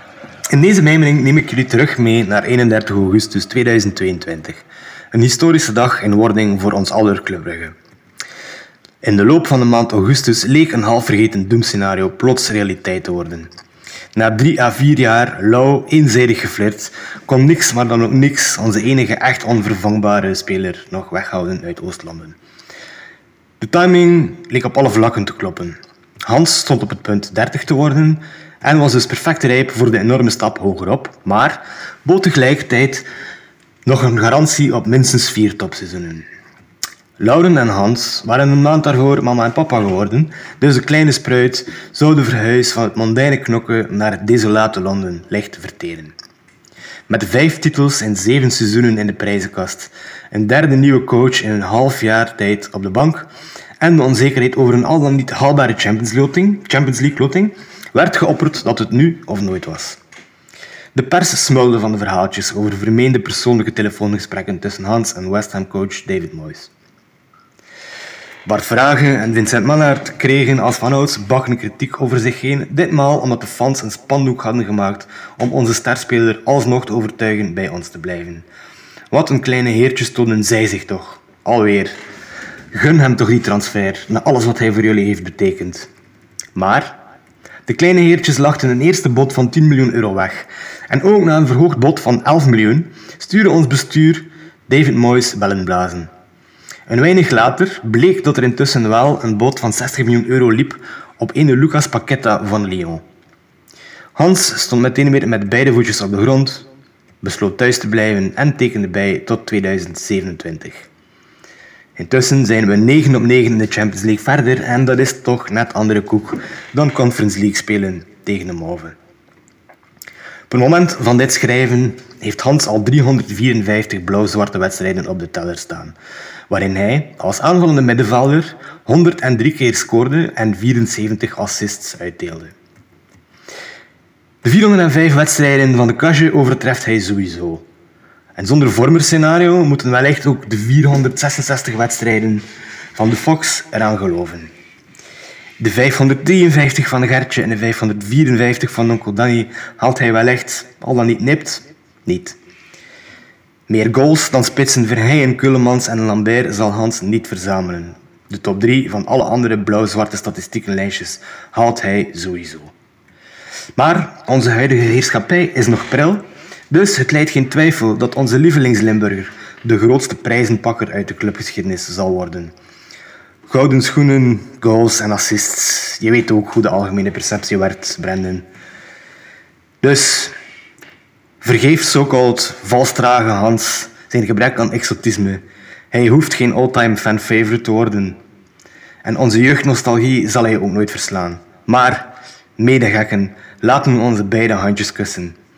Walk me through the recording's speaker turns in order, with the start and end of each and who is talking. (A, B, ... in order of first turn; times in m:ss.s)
0:00.5-0:07.8 A
0:09.0-0:13.5 A
0:14.2-0:22.4 A
0:23.6-0:33.1 A
0:33.9-0:36.3 A
0:37.2-0:46.1 A
0:47.1-0:53.3 A
0:53.8-1:00.0 A
1:00.9-1:06.7 A
1:08.5-1:18.5 A
1:19.1-1:22.0 A
1:22.7-1:25.9 A
1:26.6-1:27.0 A
1:27.7-1:36.1 A
1:36.9-1:43.0 A
1:44.2-1:46.7 A
1:47.2-1:50.9 A
1:52.0-1:59.0 A
2:00.5-2:06.0 A
2:06.5-2:12.5 A
2:14.4-2:17.6 A
2:18.4-2:24.5 A
2:25.6-2:32.4 A
2:33.7-2:42.7 A
2:43.8-2:52.5 A
2:53.5-2:58.4 A
2:59.8-3:00.4 A
3:01.4-3:08.2 A
3:09.0-3:15.4 A